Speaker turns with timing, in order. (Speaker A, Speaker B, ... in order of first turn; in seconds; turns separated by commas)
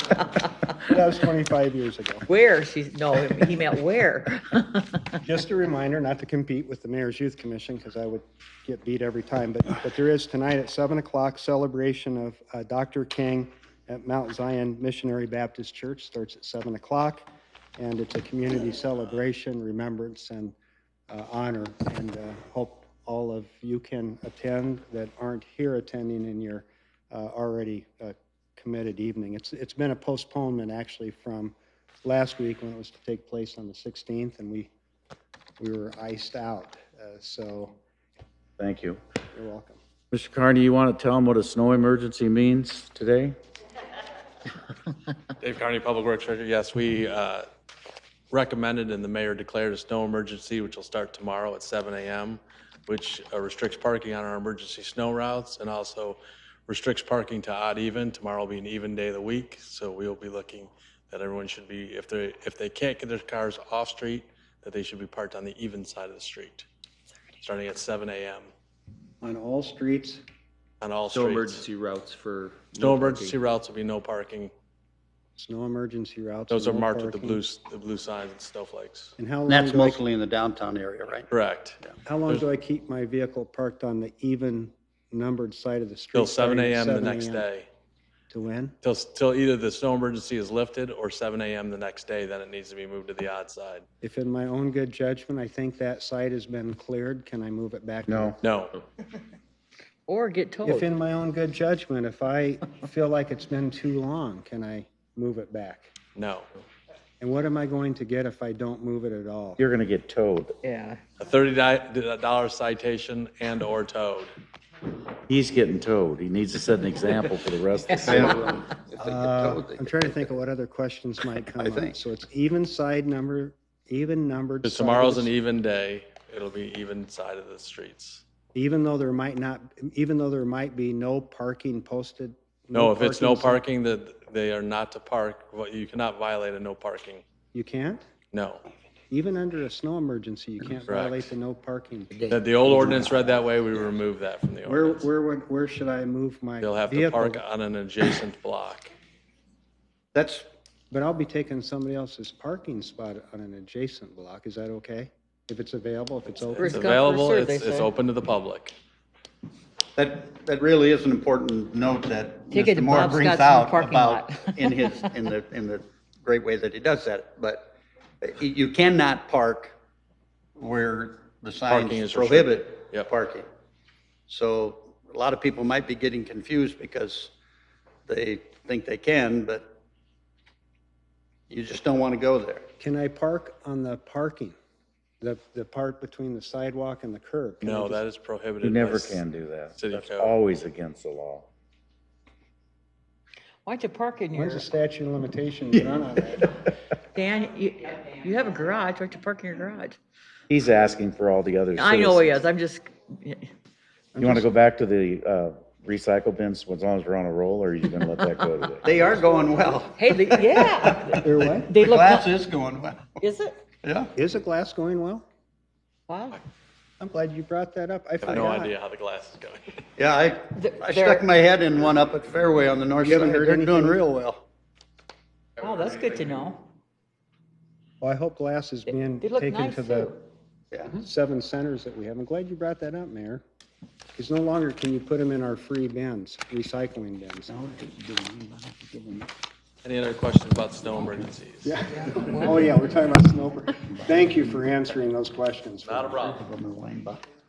Speaker A: 0.8-2.3, Speaker B: 2.3-5.0, Speaker A: 5.2-20.6, Speaker A: 21.1-34.7, Speaker A: 35.6-37.8, Speaker C: 38.6-39.0, Speaker A: 39.3-39.8, Speaker C: 40.1-43.4, Speaker D: 45.4-47.5, Speaker D: 48.3-66.7, Speaker D: 67.4-68.5, Speaker A: 69.2-70.2, Speaker D: 70.8-71.6, Speaker E: 71.1-73.4, Speaker D: 72.8-74.5, Speaker A: 75.4-77.4, Speaker D: 76.5-79.2, Speaker A: 79.2-80.0, Speaker F: 79.5-81.3, Speaker D: 81.3-82.4, Speaker A: 82.1-87.5, Speaker D: 86.1-87.7, Speaker A: 88.3-88.8, Speaker D: 88.8-93.8, Speaker A: 94.0-98.4, Speaker C: 98.1-98.4, Speaker D: 98.4-98.8, Speaker B: 100.1-100.9, Speaker A: 100.7-105.9, Speaker D: 106.2-106.5, Speaker A: 107.2-109.6, Speaker C: 109.6-110.6, Speaker B: 110.6-111.0, Speaker D: 111.2-114.3, Speaker C: 115.3-118.4, Speaker F: 118.0-120.3, Speaker A: 119.0-125.3, Speaker F: 121.5-122.0, Speaker D: 124.6-128.2, Speaker A: 128.5-133.6, Speaker D: 132.7-137.2, Speaker A: 137.5-138.0, Speaker D: 138.3-138.7, Speaker A: 139.1-143.0, Speaker D: 140.9-141.3, Speaker F: 142.1-143.4, Speaker D: 142.3-145.1, Speaker A: 144.7-147.4, Speaker D: 146.6-148.9, Speaker F: 150.1-150.5, Speaker A: 150.9-157.0, Speaker B: 156.6-157.9, Speaker D: 156.6-158.8, Speaker F: 160.0-169.8, Speaker B: 162.5-165.0, Speaker F: 170.6-173.5, Speaker D: 171.7-173.1, Speaker F: 174.3-177.3, Speaker F: 178.1-179.7, Speaker F: 181.5-182.7, Speaker A: 182.8-184.6, Speaker A: 185.2-188.0, Speaker D: 187.6-189.2, Speaker C: 188.6-191.5, Speaker D: 189.8-190.4, Speaker B: 193.7-194.7, Speaker A: 194.3-196.6, Speaker B: 197.1-200.0, Speaker C: 200.5-202.3, Speaker B: 201.7-203.5, Speaker A: 204.2-204.4, Speaker C: 204.2-208.9, Speaker F: 208.8-213.2, Speaker B: 209.9-212.3, Speaker A: 211.2-211.7, Speaker B: 213.2-213.6, Speaker F: 213.8-214.1, Speaker A: 214.2-215.3, Speaker B: 216.1-216.4, Speaker A: 217.0-218.7, Speaker D: 218.2-219.8, Speaker F: 220.0-224.4, Speaker B: 220.5-221.2, Speaker A: 223.0-224.0, Speaker B: 225.6-226.7, Speaker A: 228.0-230.2, Speaker B: 229.2-230.2, Speaker A: 230.9-233.4, Speaker A: 234.2-237.5, Speaker F: 237.5-239.3, Speaker D: 239.8-241.8, Speaker A: 241.6-246.2, Speaker B: 241.9-242.7, Speaker F: 242.4-242.7, Speaker F: 243.9-244.6, Speaker D: 245.8-246.4, Speaker F: 246.2-247.2